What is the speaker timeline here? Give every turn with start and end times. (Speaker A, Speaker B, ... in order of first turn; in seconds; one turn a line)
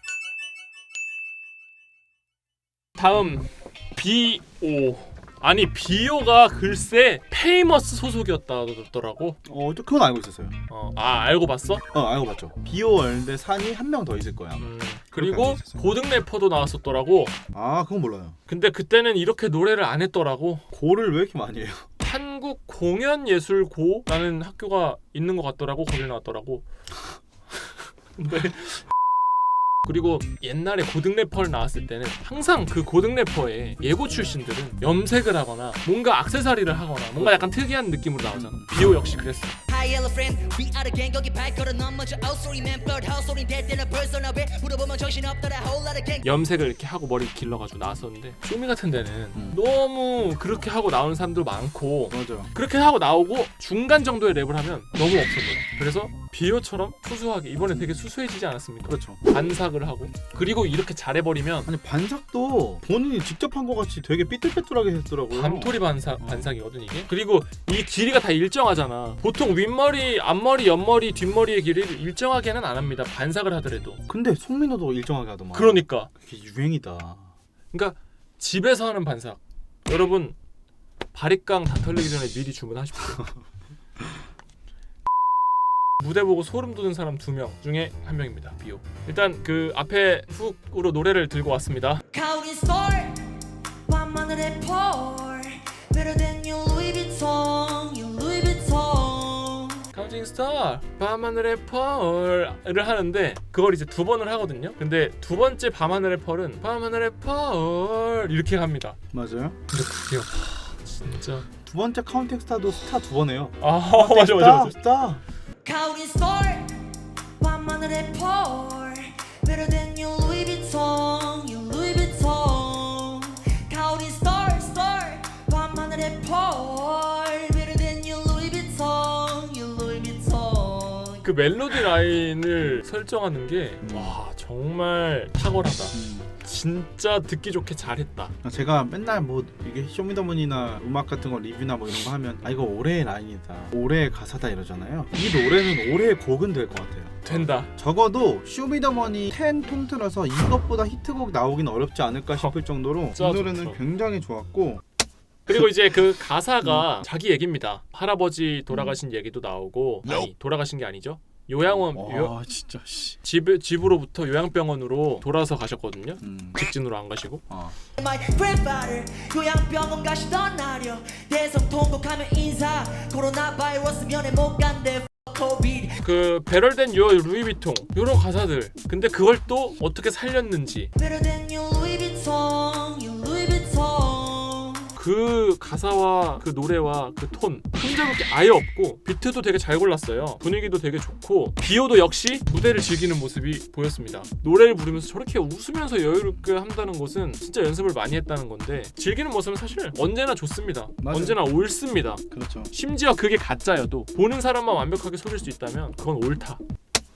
Speaker A: 3.0-9.4
Speaker B: 9.4-10.6
Speaker A: 10.7-11.8
Speaker B: 11.9-16.0
Speaker A: 14.6-17.4
Speaker B: 17.5-18.4
Speaker A: 18.5-20.7
Speaker B: 20.7-21.9
Speaker A: 22.0-26.6
Speaker A: 28.2-28.9
Speaker A: 29.9-39.5
Speaker B: 37.2-37.5
Speaker B: 38.3-38.7
Speaker C: 39.7-46.2
Speaker A: 46.2-61.7
Speaker B: 52.1-52.5
Speaker B: 57.7-58.0
Speaker B: 58.9-59.2
Speaker B: 61.7-66.5
Speaker A: 65.3-74.0
Speaker B: 74.1-77.3
Speaker A: 75.5-76.1
Speaker A: 77.7-80.4
Speaker A: 81.1-83.3
Speaker A: 86.0-92.0
Speaker C: 92.1-93.2
Speaker C: 93.9-99.8
Speaker A: 99.9-109.0
Speaker B: 109.1-109.6
Speaker A: 109.7-111.5
Speaker B: 111.6-115.2
Speaker A: 113.6-114.8
Speaker C: 115.7-116.7
Speaker C: 117.4-131.2
Speaker A: 131.2-138.3
Speaker B: 133.8-134.2
Speaker B: 135.9-136.3
Speaker B: 138.4-154.8
Speaker A: 147.2-147.7
Speaker A: 153.2-153.8
Speaker A: 155.5-162.3
Speaker B: 156.6-156.9
Speaker B: 158.7-159.0
Speaker B: 161.9-163.2
Speaker A: 163.2-167.4
Speaker B: 166.2-166.6
Speaker B: 167.5-167.8
Speaker C: 168.0-176.0
Speaker A: 176.0-180.9
Speaker C: 181.0-184.9
Speaker A: 185.0-206.6
Speaker B: 201.0-201.4
Speaker B: 202.3-202.7